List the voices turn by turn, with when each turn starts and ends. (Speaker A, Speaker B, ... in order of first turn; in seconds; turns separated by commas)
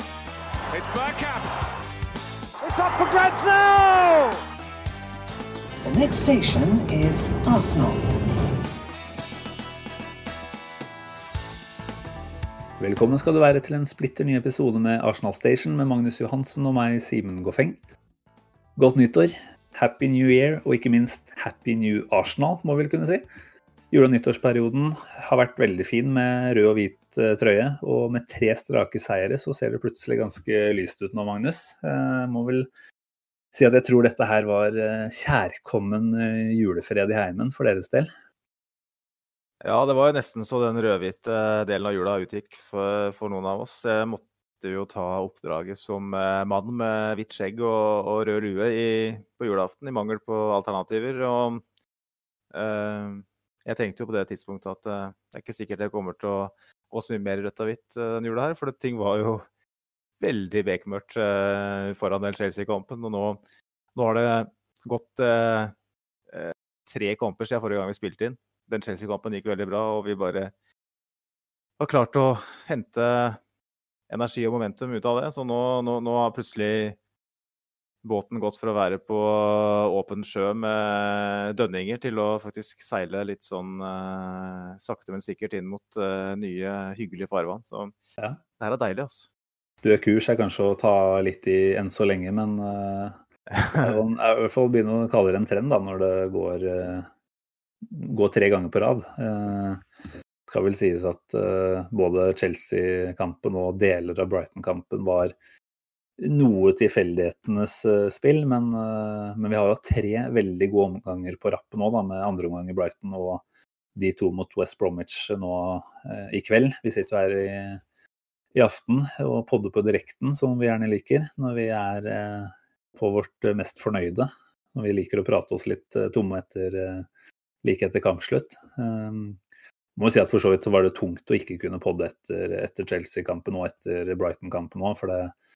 Speaker A: 0.7-1.6, Speaker A: 2.6-4.4, Speaker B: 5.8-8.1, Speaker C: 12.8-17.8, Speaker C: 18.8-23.2, Speaker C: 23.9-32.7, Speaker C: 33.5-38.1, Speaker D: 39.6-51.6, Speaker D: 52.5-59.5, Speaker D: 60.2-63.4, Speaker D: 64.0-65.7, Speaker D: 66.3-70.5, Speaker D: 71.8-73.4, Speaker D: 74.1-77.0, Speaker D: 78.0-87.9, Speaker D: 88.6-89.3, Speaker C: 89.8-93.2, Speaker D: 93.5-94.0, Speaker C: 93.8-97.1, Speaker C: 97.8-99.9, Speaker C: 100.5-105.3, Speaker C: 106.2-113.4, Speaker C: 114.0-117.8, Speaker C: 118.5-127.1, Speaker C: 127.6-129.4, Speaker C: 130.0-135.3